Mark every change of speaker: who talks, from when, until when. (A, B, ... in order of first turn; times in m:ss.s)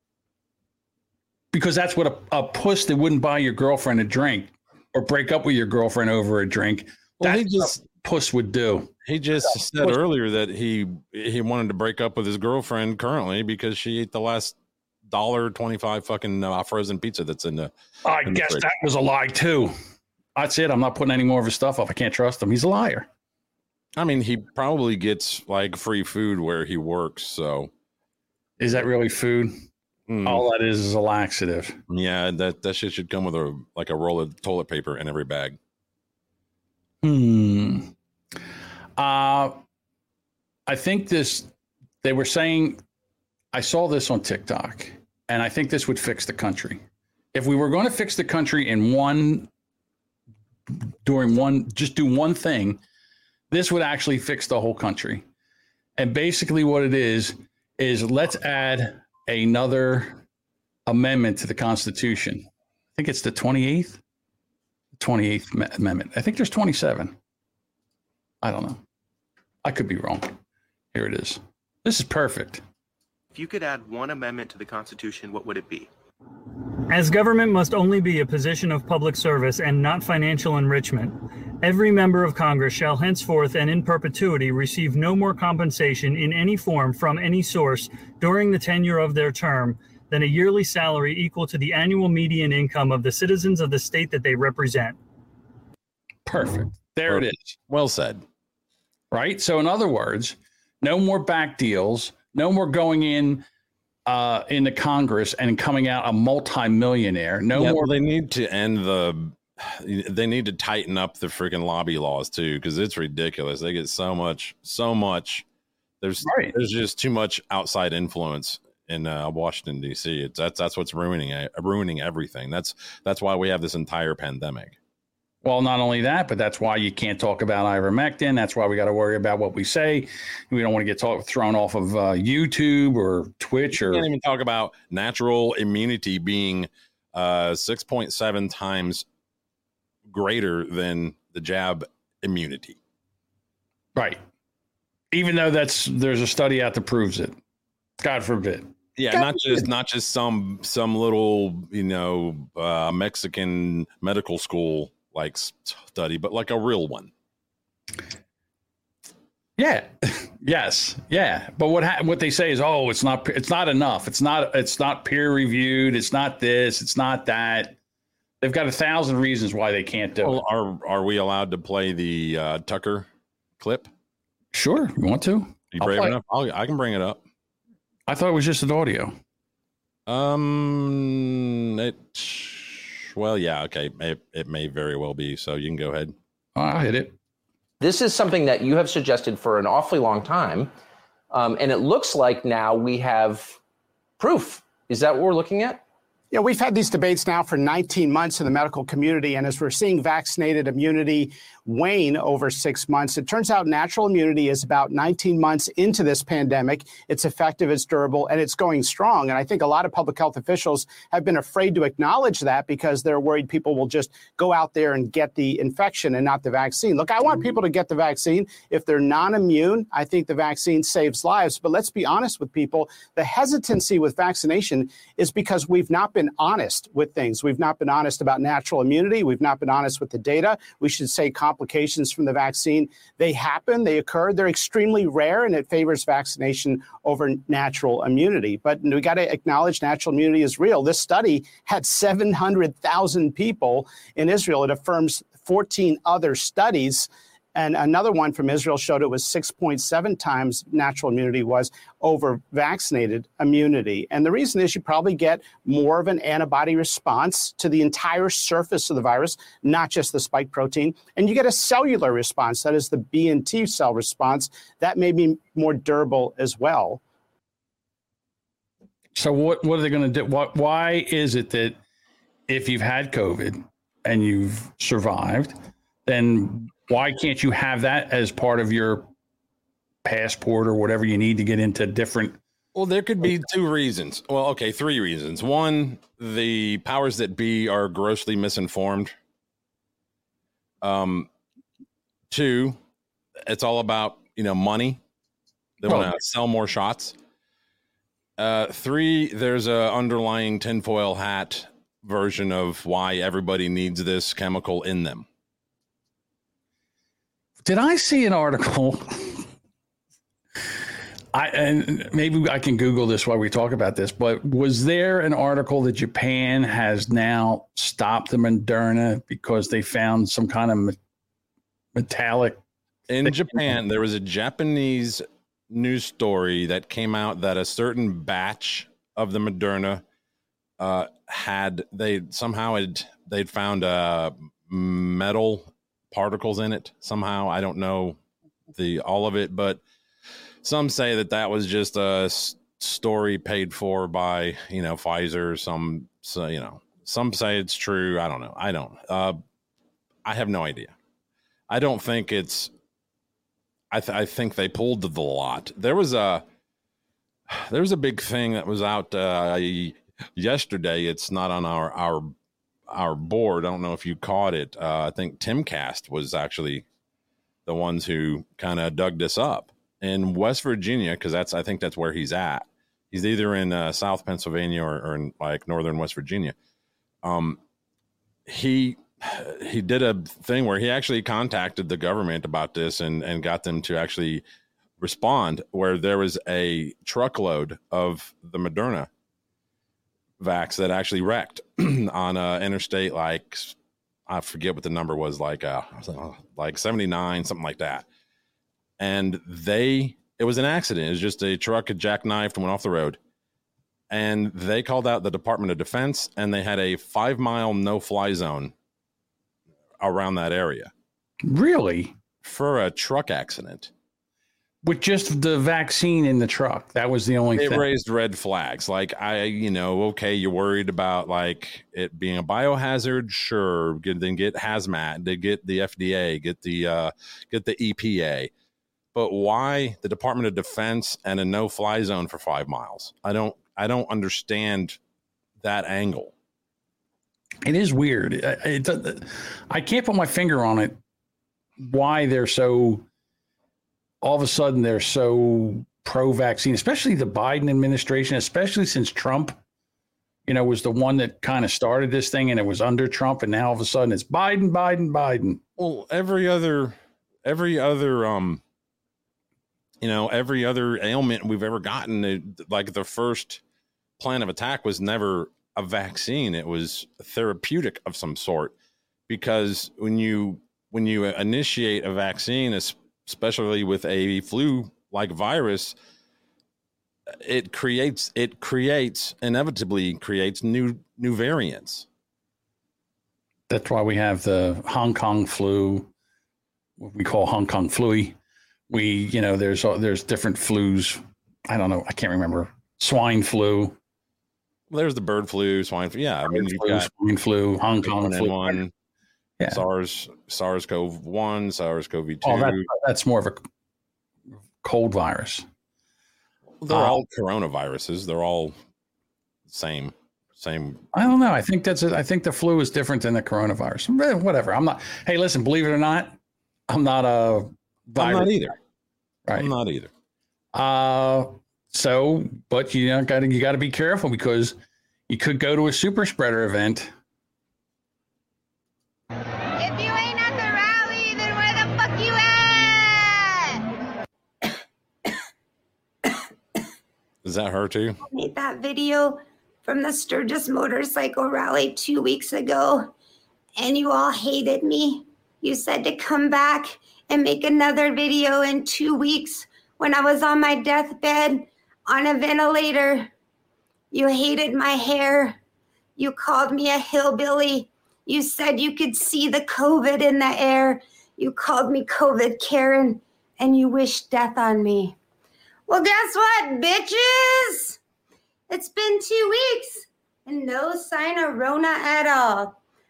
0:01.5-0:08.9 A
0:07.2-0:07.8 B
0:09.0-0:14.6 B
0:09.5-0:10.0 A
0:15.1-0:17.7 B
0:18.0-0:19.7 A
0:18.2-0:18.6 B
0:20.4-0:23.1 A
0:24.0-0:27.7 B
0:28.6-0:29.5 A
0:30.1-0:30.4 B
0:30.2-0:31.8 A
0:31.9-0:35.6 B
0:37.0-0:37.9 A
0:39.0-0:39.6 A
0:40.7-0:41.5 A
0:42.0-0:42.8 A
0:43.5-0:46.8 A
0:47.3-0:49.5 A
0:50.7-0:52.8 A
0:53.5-0:55.2 A
0:56.0-1:00.2 A
1:00.9-1:04.0 A
1:05.0-1:07.2 A
1:08.4-1:08.8 A
1:09.6-1:10.4 A
1:10.9-1:12.6 A
1:13.3-1:15.9 C
1:16.9-1:35.0 D
1:36.2-1:37.6 A
1:37.1-1:38.2 B
1:39.1-1:43.4 A
1:44.0-1:47.9 A
1:47.5-1:55.4 B
1:56.0-2:04.8 B
1:56.2-1:56.5 A
2:05.4-2:14.1 A
2:13.7-2:19.0 B
2:20.1-2:22.8 B
2:23.9-2:24.2 A
2:25.1-2:27.3 A
2:28.0-2:29.6 A
2:29.0-2:37.1 B
2:39.6-2:47.7 A
2:48.4-2:50.4 A
2:50.2-2:53.1 B
2:53.6-2:53.9 B
2:54.5-2:56.2 A
2:55.7-2:57.2 B
2:58.1-2:59.1 A
3:00.1-3:06.1 B
3:06.6-3:07.1 A
3:07.8-3:10.7 E
3:11.3-3:13.6 E
3:14.2-3:15.8 E
3:16.3-4:27.0 F
4:29.1-4:31.8 A
4:32.5-4:35.5 A
4:36.0-4:39.1 A
4:40.0-4:42.4 A
4:42.7-4:49.1 B
4:50.8-4:51.3 B
4:52.3-4:52.8 B
4:53.4-4:55.0 B
4:55.8-4:57.2 B
4:55.8-4:56.2 A
4:58.4-5:05.2 B
5:07.6-5:09.5 A
5:11.3-5:21.0 A
5:21.9-5:22.6 A
5:23.1-5:30.0 B
5:23.2-5:23.7 A
5:30.8-5:38.2 B
5:38.7-5:39.8 B
5:40.6-5:49.4 B
5:50.2-5:50.9 B
5:51.7-5:52.7 B
5:53.9-5:56.4 B
5:57.5-6:02.3 B
6:02.9-6:06.8 B
6:07.6-6:16.5 B
6:17.2-6:17.6 B
6:18.5-6:24.4 B
6:25.0-6:29.1 B
6:30.4-6:33.8 B
6:34.3-6:38.1 B
6:39.0-6:43.2 B
6:44.1-6:48.7 B
6:50.0-6:50.9 B
6:51.4-6:52.1 A
6:52.4-6:53.9 B
6:54.8-6:57.8 A
6:57.5-7:08.5 B
7:09.1-7:15.0 B
7:15.6-7:16.3 B
7:17.6-7:21.0 A
7:21.8-7:23.0 A
7:24.2-7:29.6 A
7:30.4-7:35.6 A
7:35.8-7:38.6 B
7:40.0-7:43.6 B
7:44.2-7:48.7 B
7:49.3-7:56.0 B
7:57.4-8:02.0 B
8:03.7-8:06.1 A
8:07.0-8:08.3 A
8:08.9-8:14.0 A
8:14.9-8:17.1 B
8:16.4-8:18.8 A
8:18.0-8:18.9 B
8:19.7-8:22.9 B
8:22.4-8:23.6 A
8:24.8-8:25.6 A
8:26.8-8:28.7 B
8:26.9-8:27.2 A
8:29.7-8:31.0 B
8:31.1-8:36.3 A
8:36.9-8:38.7 A
8:38.2-8:38.8 B
8:39.5-8:40.1 B
8:40.7-8:44.8 A
8:45.3-8:47.1 A
8:49.8-8:53.8 G
8:57.4-8:58.2 B
8:58.3-9:03.1 G
9:03.8-9:13.3 G
9:14.1-9:15.6 G
9:16.2-9:25.2 G
9:25.9-9:28.0 G
9:28.7-9:32.8 G